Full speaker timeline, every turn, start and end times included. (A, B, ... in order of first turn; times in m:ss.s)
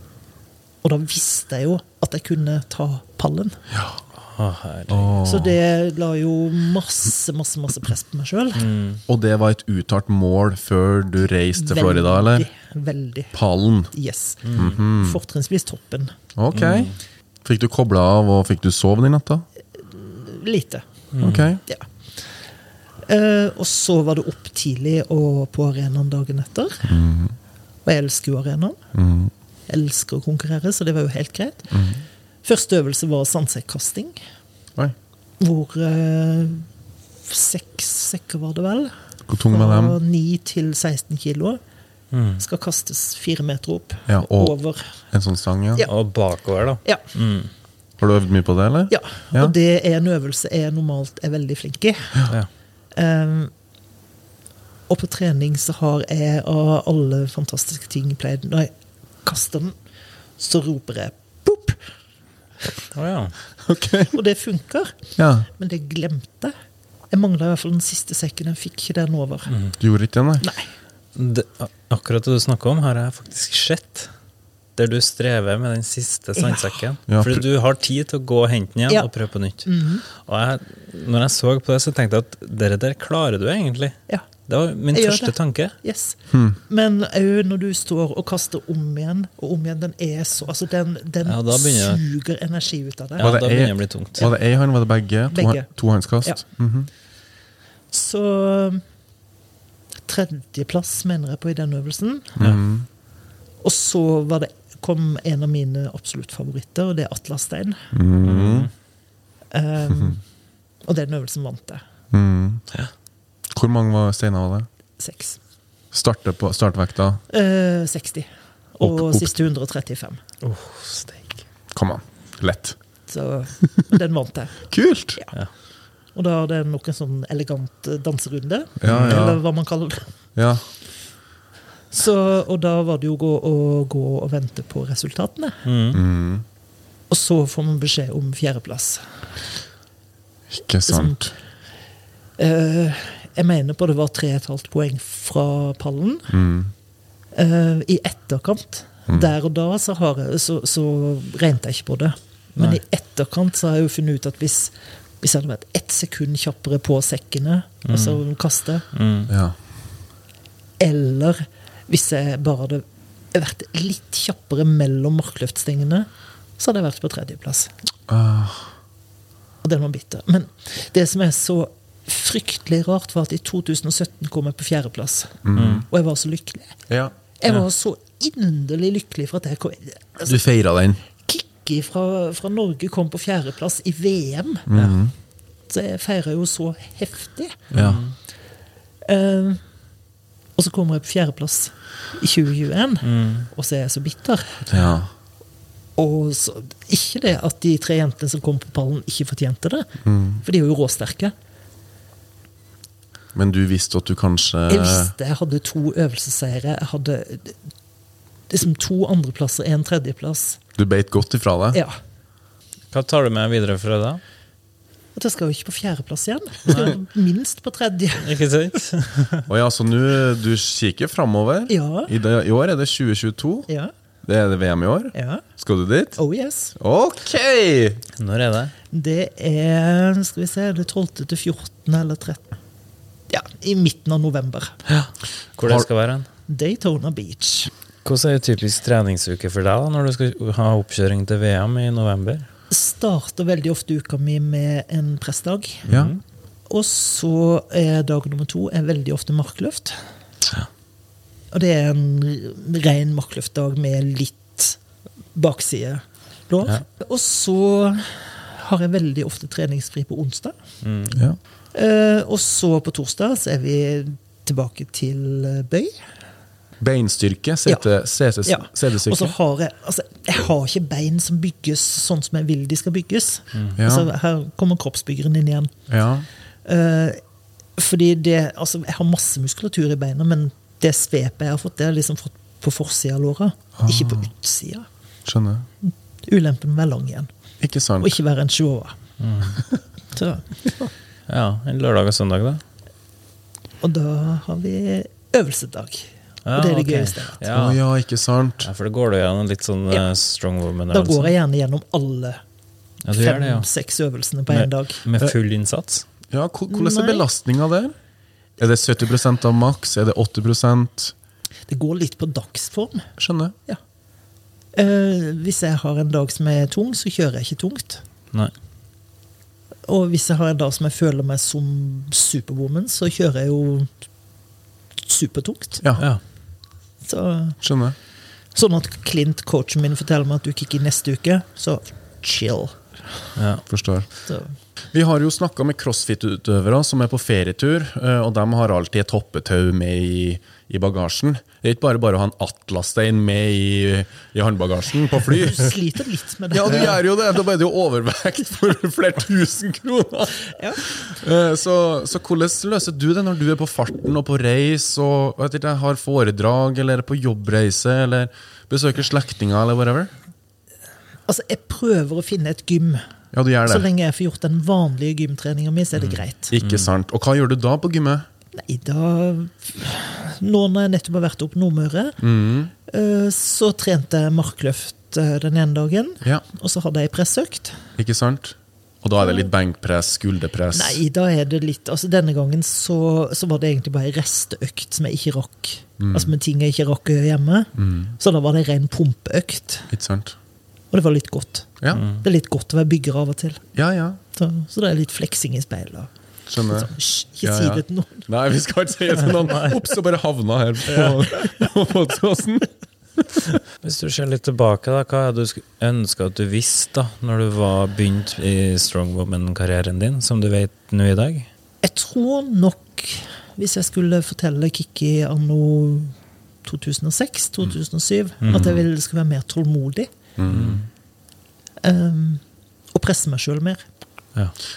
0:00.8-0:03.6 A
0:03.7-0:04.0 B
0:04.2-0:05.1 C
0:04.9-0:05.6 B
0:05.2-0:08.7 A
0:08.6-0:09.0 C
0:09.1-0:12.5 B
0:11.5-0:13.4 A
0:13.3-0:13.9 B
0:13.9-0:16.2 A
0:14.4-0:14.8 C
0:14.5-0:15.2 B
0:16.4-0:16.9 B
0:16.5-0:17.0 C
0:17.4-0:19.5 B
0:19.8-0:20.8 A
0:21.1-0:21.5 C
0:21.2-0:21.6 B
0:23.1-0:27.0 A
0:26.9-0:27.4 B
0:27.8-0:28.8 A
0:28.9-0:29.3 B
0:29.7-0:31.7 A
0:31.7-0:32.0 B
0:32.4-0:34.2 A
0:35.4-0:36.7 A
0:37.3-0:38.9 A
0:39.3-0:40.0 B
0:39.5-0:41.6 A
0:42.1-0:42.4 C
0:42.4-0:44.9 A
0:44.1-0:44.6 B
0:45.1-0:45.9 B
0:45.8-0:47.5 C
0:48.0-0:49.5 B
0:48.9-0:52.2 A
0:52.9-0:53.5 A
0:54.9-0:58.7 A
0:59.2-0:59.8 A
1:00.4-1:01.8 A
1:02.9-1:03.4 C
1:03.6-1:04.2 B
1:04.1-1:06.5 A
1:05.2-1:05.5 B
1:07.1-1:09.5 A
1:09.5-1:09.8 C
1:09.8-1:10.4 B
1:10.4-1:10.7 A
1:11.2-1:14.1 C
1:14.8-1:25.8 C
1:16.4-1:16.9 A
1:17.1-1:17.5 B
1:19.6-1:20.0 A
1:24.9-1:33.3 A
1:31.2-1:32.0 C
1:33.2-1:34.3 C
1:33.2-1:36.9 B
1:35.3-1:35.7 A
1:37.9-1:38.8 A
1:40.1-1:42.4 A
1:42.4-1:42.9 B
1:43.6-1:47.9 A
1:47.9-1:48.7 B
1:48.2-1:48.7 C
1:49.5-1:50.2 A
1:50.9-1:51.8 A
1:52.1-1:52.6 B
1:53.5-1:54.7 B
1:55.0-1:55.4 A
1:55.9-1:57.2 B
1:57.3-2:00.2 A
1:58.8-1:59.3 B
2:00.4-2:01.4 C
2:01.7-2:02.8 B
2:03.1-2:04.6 A
2:04.7-2:05.2 B
2:06.2-2:10.1 A
2:08.8-2:09.4 B
2:08.9-2:09.2 C
2:10.4-2:10.6 B
2:11.9-2:15.6 A
2:15.6-2:16.0 C
2:15.9-2:16.4 B
2:17.1-2:19.0 A
2:20.5-2:21.3 B
2:20.9-2:21.3 A
2:22.4-2:26.3 A
2:26.3-2:26.7 B
2:27.3-2:38.9 A
2:37.9-2:38.2 C
2:38.9-2:39.3 C
2:39.3-2:39.6 B
2:40.8-2:46.1 A
2:46.6-2:47.7 A
2:48.1-2:48.7 B
2:49.6-2:56.8 A
2:55.4-2:55.9 B
2:55.6-2:55.9 C
2:57.4-3:00.4 A
3:00.2-3:01.0 B
3:01.3-3:04.7 A
3:04.7-3:05.1 B
3:05.7-3:07.7 A
3:07.7-3:08.1 C
3:07.7-3:08.0 B
3:09.0-3:09.6 A
3:10.6-3:14.6 A
3:13.0-3:13.5 C
3:14.6-3:15.1 B
3:16.0-3:19.9 A
3:20.0-3:20.4 B
3:20.4-3:21.3 A
3:23.3-3:25.1 B
3:24.7-3:27.6 A
3:28.5-3:30.6 A
3:30.8-3:31.8 B
3:31.7-3:32.0 A
3:32.9-3:34.2 C
3:35.2-3:38.4 A
3:36.7-3:37.0 C
3:38.2-3:39.5 C
3:39.5-3:43.7 B
3:41.7-3:42.1 A
3:44.2-3:46.2 B
3:45.1-3:45.4 A
3:46.2-3:46.8 A
3:46.8-3:48.0 B
3:48.2-3:48.8 C
3:48.9-3:52.5 A
3:53.3-3:54.8 A
3:54.9-3:56.3 C
3:55.6-3:55.9 B
3:56.5-3:57.7 A
3:58.0-4:02.5 C
4:02.7-4:05.9 A
4:05.9-4:06.2 B
4:05.9-4:06.2 C
4:06.7-4:10.0 A
4:11.5-4:14.8 A
4:15.4-4:20.6 A
4:20.8-4:21.2 C
4:21.7-4:25.9 A
4:26.8-4:29.4 B
4:28.4-4:35.7 A
4:33.8-4:34.1 B
4:35.9-4:36.3 B
4:36.6-4:37.2 A
4:37.8-4:44.9 A
4:43.8-4:44.2 B
4:45.2-4:45.7 B
4:45.8-4:47.3 A
4:47.6-4:48.1 B
4:48.0-4:49.0 A
4:49.2-4:49.6 C
4:50.1-4:50.5 A
4:51.3-4:52.6 C
4:53.8-4:57.4 A
4:56.5-4:57.8 C
4:57.5-4:58.7 B
4:58.6-5:01.4 C
5:00.9-5:02.4 A
5:03.0-5:03.7 C
5:03.1-5:05.0 A
5:04.5-5:06.0 C
5:06.3-5:07.9 B
5:06.7-5:07.3 A
5:08.6-5:11.1 B
5:11.7-5:13.1 A
5:13.2-5:13.6 B
5:14.8-5:18.0 A
5:19.9-5:23.9 A
5:25.0-5:25.8 A
5:27.0-5:27.6 A
5:27.6-5:28.0 B
5:28.5-5:32.8 A
5:33.4-5:33.6 C
5:33.7-5:34.1 B
5:34.3-5:34.5 A
5:34.9-5:45.7 B
5:45.4-5:47.0 A
5:46.5-6:00.1 B
5:50.5-5:50.8 A
6:01.3-6:03.0 A
6:03.3-6:03.9 B
6:03.6-6:06.6 A
6:06.5-6:08.3 B
6:08.6-6:12.2 A
6:12.2-6:12.7 B
6:12.9-6:17.9 A
6:18.0-6:21.0 B
6:20.7-6:29.9 A
6:26.0-6:26.3 B
6:27.8-6:28.1 B
6:29.9-6:30.4 B
6:30.9-6:33.6 A
6:31.9-6:32.2 C
6:33.8-6:34.2 B
6:34.3-6:36.1 A
6:36.5-6:36.9 B
6:36.6-6:38.3 A
6:37.4-6:42.7 B
6:43.8-6:51.5 C
6:51.8-7:00.1 A
6:58.4-6:58.7 C
6:58.5-6:58.8 B
7:00.4-7:00.8 B
7:00.5-7:00.8 C
7:01.8-7:02.4 A
7:02.9-7:03.8 A